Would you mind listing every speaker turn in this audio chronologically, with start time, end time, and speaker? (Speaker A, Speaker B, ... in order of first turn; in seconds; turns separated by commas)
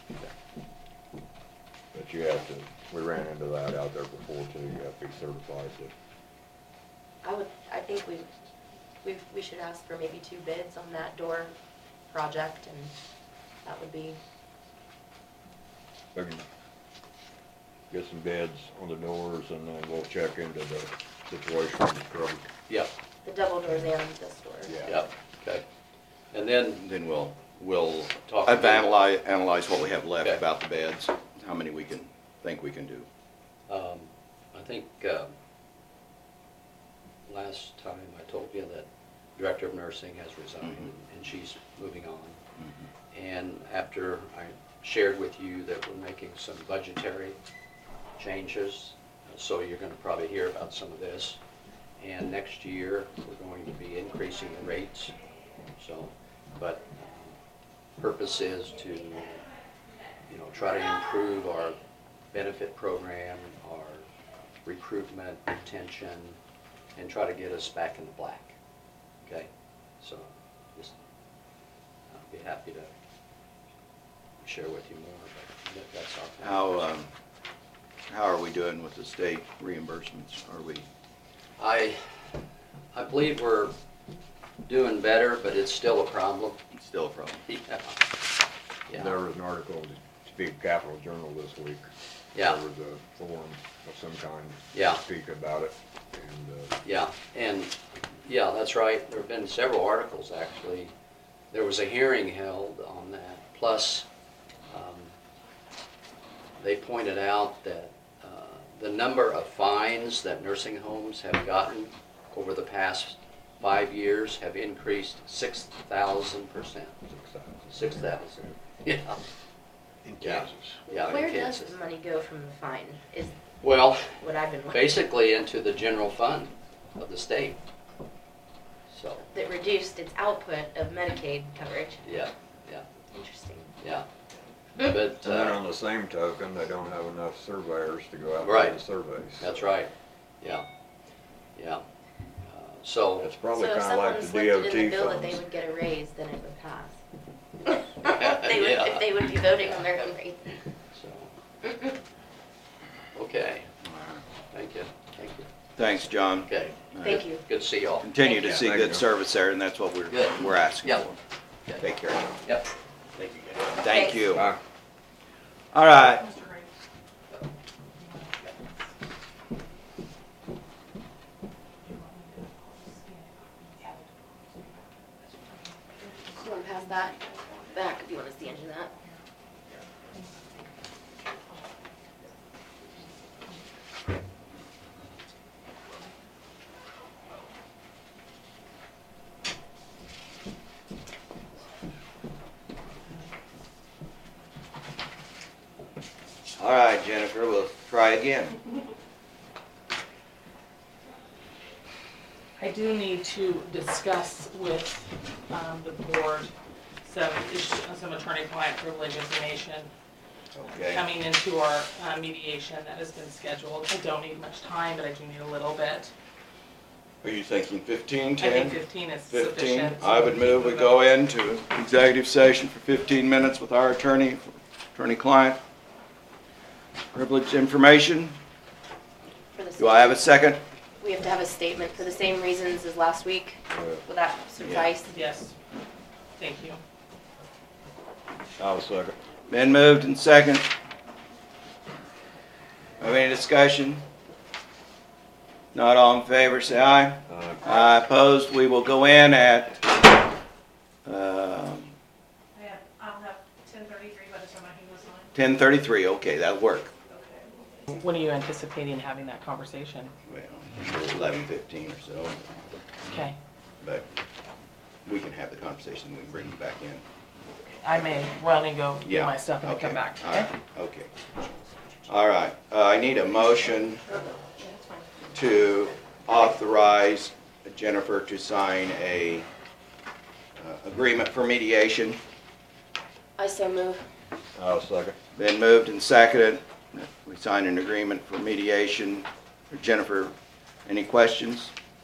Speaker A: 1.9-5.9, Speaker B: 7.2-8.3, Speaker B: 9.0-11.6, Speaker B: 12.1-12.9, Speaker B: 13.6-14.2, Speaker A: 16.1-16.4, Speaker A: 17.9-22.5, Speaker B: 23.2-24.8, Speaker A: 24.7-25.1, Speaker C: 24.9-25.6, Speaker C: 26.3-26.9, Speaker D: 26.8-27.5, Speaker C: 27.5-28.9, Speaker D: 28.4-33.1, Speaker C: 33.7-35.3, Speaker C: 37.3-42.4, Speaker C: 43.1-47.4, Speaker C: 48.2-51.4, Speaker C: 52.0-55.1, Speaker C: 55.8-57.4, Speaker C: 58.0-59.4, Speaker C: 60.3-61.8, Speaker C: 62.3-64.1, Speaker C: 64.7-66.4, Speaker C: 67.0-68.5, Speaker C: 70.0-71.0, Speaker C: 72.1-72.9, Speaker C: 74.4-76.8, Speaker D: 76.4-77.1, Speaker D: 78.1-80.8, Speaker C: 81.6-82.0, Speaker C: 82.9-83.8, Speaker C: 84.7-86.6, Speaker D: 86.7-87.4, Speaker C: 87.5-88.0, Speaker C: 88.9-89.2, Speaker A: 88.9-91.9, Speaker C: 92.3-92.6, Speaker A: 92.4-96.8, Speaker C: 94.7-95.0, Speaker C: 96.8-100.9, Speaker C: 101.5-104.1, Speaker C: 104.7-105.1, Speaker C: 106.6-117.0, Speaker A: 117.1-118.1, Speaker C: 117.7-119.2, Speaker A: 120.0-121.1, Speaker C: 120.2-121.8, Speaker B: 120.9-123.4, Speaker C: 123.6-127.6, Speaker B: 124.1-125.0, Speaker C: 128.9-129.3, Speaker B: 129.2-132.1, Speaker C: 132.0-132.8, Speaker B: 133.1-133.7, Speaker C: 133.8-134.1, Speaker C: 134.8-135.6, Speaker A: 135.2-139.5, Speaker C: 138.4-138.8, Speaker C: 139.4-140.7, Speaker C: 141.6-141.8, Speaker C: 142.4-143.3, Speaker A: 143.2-145.4, Speaker B: 143.5-147.0, Speaker B: 148.0-150.5, Speaker C: 148.0-149.9, Speaker C: 150.9-151.3, Speaker C: 153.2-153.7, Speaker D: 153.8-154.2, Speaker C: 154.5-155.5, Speaker D: 155.8-157.2, Speaker C: 156.4-158.1, Speaker B: 157.0-157.4, Speaker D: 158.0-161.2, Speaker B: 158.2-158.6, Speaker A: 158.3-159.1, Speaker C: 160.1-161.1, Speaker D: 161.8-162.4, Speaker C: 162.4-162.7, Speaker D: 163.2-164.5, Speaker B: 163.8-164.4, Speaker A: 164.3-164.6, Speaker D: 165.7-166.3, Speaker E: 166.0-166.7, Speaker E: 168.0-168.9, Speaker E: 171.8-174.7, Speaker E: 175.6-177.2, Speaker B: 176.4-178.9, Speaker D: 196.6-198.6, Speaker E: 202.6-206.5, Speaker E: 207.1-209.9, Speaker D: 210.5-211.0, Speaker E: 210.7-216.1, Speaker D: 217.2-225.6, Speaker E: 218.4-221.0, Speaker D: 227.1-228.3, Speaker B: 229.5-230.3, Speaker D: 229.8-230.6, Speaker B: 231.0-235.2, Speaker A: 233.7-234.0, Speaker D: 234.6-234.9, Speaker E: 235.1-235.5, Speaker E: 236.4-236.8, Speaker A: 238.6-239.2, Speaker D: 239.5-240.7, Speaker D: 243.0-244.0, Speaker D: 245.7-250.2, Speaker A: 247.3-247.9, Speaker D: 251.1-251.9, Speaker F: 252.6-255.3, Speaker D: 255.3-256.9, Speaker E: 257.9-260.1, Speaker D: 260.3-262.5, Speaker E: 263.1-263.4, Speaker D: 265.1-267.0, Speaker E: 267.8-270.5, Speaker D: 269.0-271.1, Speaker D: 272.1-274.1, Speaker D: 275.3-279.5, Speaker D: 280.6-282.2, Speaker B: 283.4-284.1, Speaker A: 284.6-285.2, Speaker D: 285.4-290.3, Speaker D: 290.9-291.7